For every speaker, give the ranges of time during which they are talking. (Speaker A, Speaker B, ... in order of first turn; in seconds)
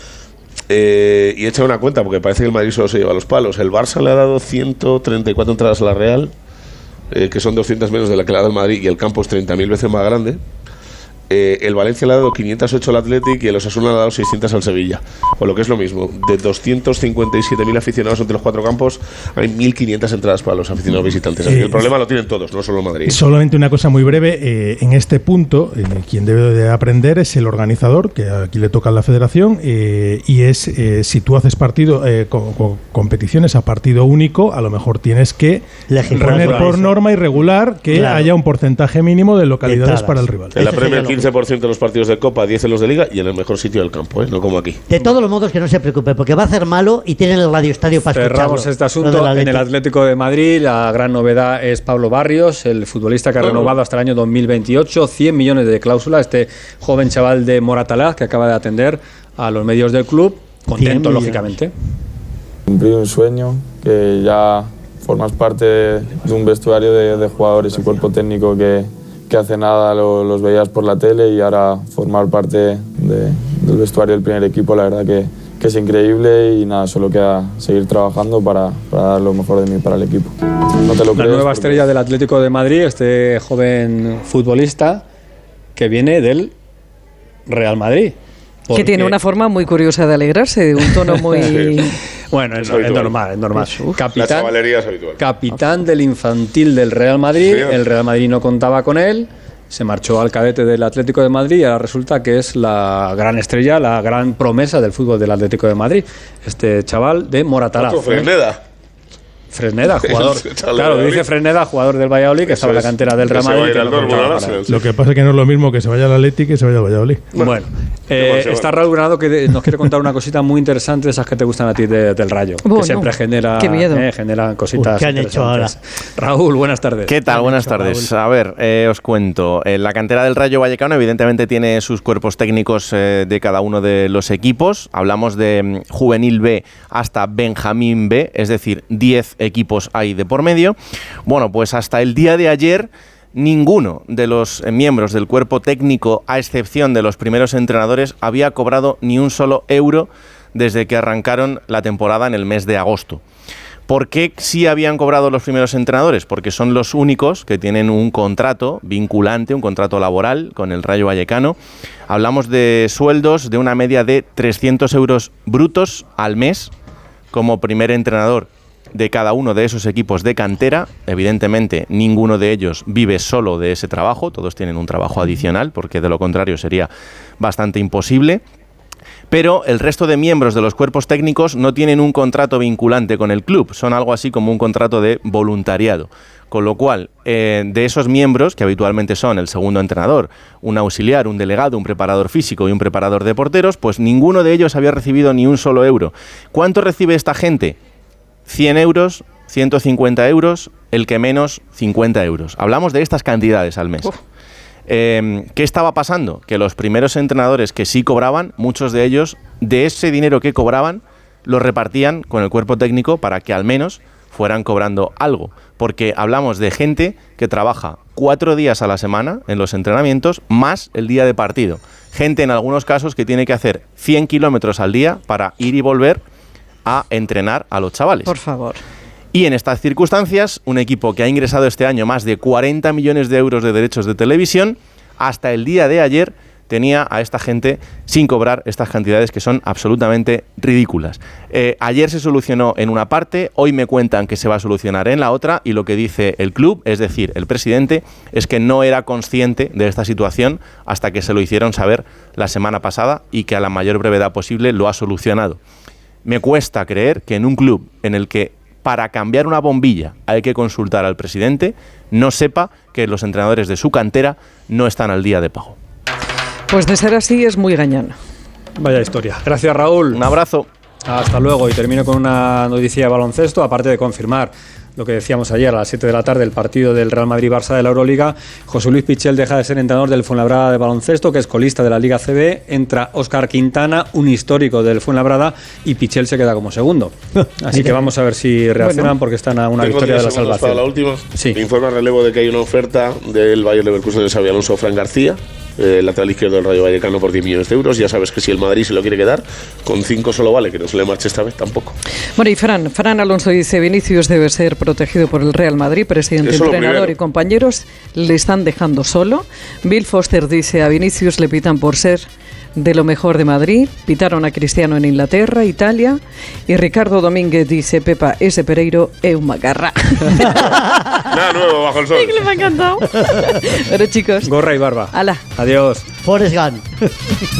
Speaker A: 0.7-6.3, 7.1-10.4, 11.3-23.2, 40.5-44.8, 53.4-53.7, 91.5-91.8, 92.6-93.2, 94.1-95.2, 97.4-97.8, 107.8-108.6, 110.0-111.3, 112.5-114.8, 117.3-117.6, 118.1-118.8, 289.8-302.0, 306.4-307.1, 321.3-322.6
Speaker B: 21.4-21.9, 23.1-35.7, 36.2-40.6, 114.7-117.3
Speaker C: 35.9-37.0, 37.9-38.3, 39.6-41.3, 44.9-49.6, 60.7-61.4, 124.8-125.7, 127.4-128.1, 320.4-321.3, 326.2-327.4
Speaker D: 36.1-36.8, 48.0-61.7, 81.2-85.0, 85.8-86.5, 87.5-88.2, 88.7-89.2, 91.0-91.6, 92.3-94.5, 95.2-108.3, 109.5-114.6, 117.4-127.4, 268.8-270.2, 271.1-291.6, 324.4-326.1
Speaker E: 62.7-81.8
Speaker F: 88.7-92.0, 93.6-94.0, 122.6-124.1, 228.3-228.8, 266.7-268.1, 288.8-289.1, 302.4-312.2, 312.8-320.7, 322.1-324.5, 325.1-325.4
Speaker G: 127.1-153.2, 153.9-161.6, 162.1-166.7, 167.3-176.9, 177.4-178.4, 179.3-197.8, 198.5-204.1, 204.9-226.2, 226.8-228.3, 229.3-255.6, 256.2-265.8, 270.1-270.7